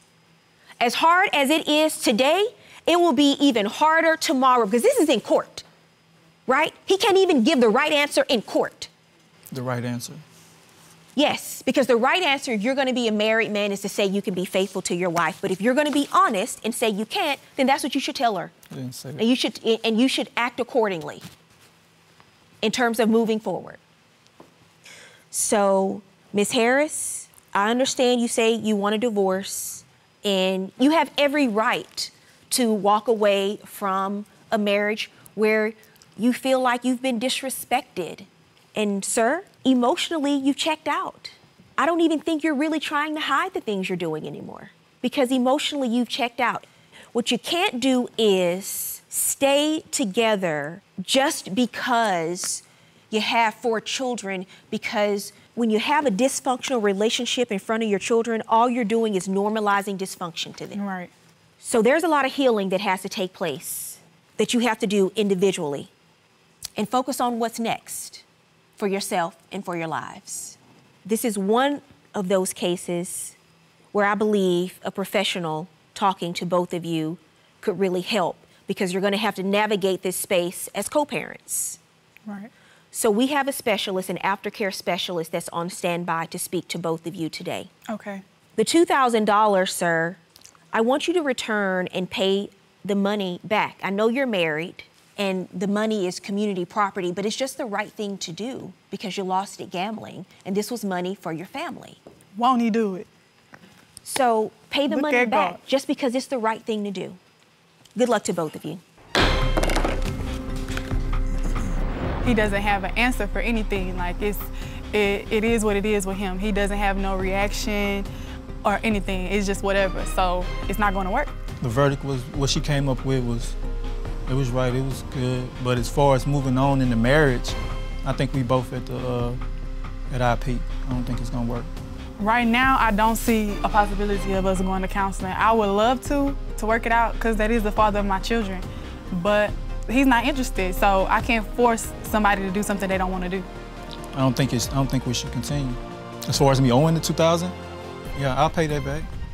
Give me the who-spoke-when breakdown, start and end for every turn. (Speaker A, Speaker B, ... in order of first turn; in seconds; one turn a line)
Speaker A: 0.8-5.6
Speaker A: 6.5-8.9
Speaker B: 9.5-10.2
Speaker A: 11.2-18.5
Speaker B: 18.7-19.2
Speaker A: 19.2-21.2
Speaker A: 22.6-23.8
Speaker A: 25.3-60.8
Speaker C: 60.7-61.1
Speaker A: 61.6-65.9
Speaker A: 66.8-68.2
Speaker A: 68.8-73.4
Speaker A: 73.9-81.8
Speaker C: 82.3-82.5
Speaker A: 82.9-87.7
Speaker C: 87.9-88.2
Speaker A: 88.6-90.2
Speaker A: 90.7-102.0
Speaker C: 102.4-103.1
Speaker A: 104.0-107.2
Speaker C: 104.9-105.6
Speaker A: 108.0-108.8
Speaker C: 112.2-118.1
Speaker C: 118.6-121.3
Speaker B: 121.6-123.6
Speaker B: 124.3-129.4
Speaker B: 130.1-131.7
Speaker C: 132.2-143.5
Speaker B: 144.1-147.6
Speaker B: 148.2-149.1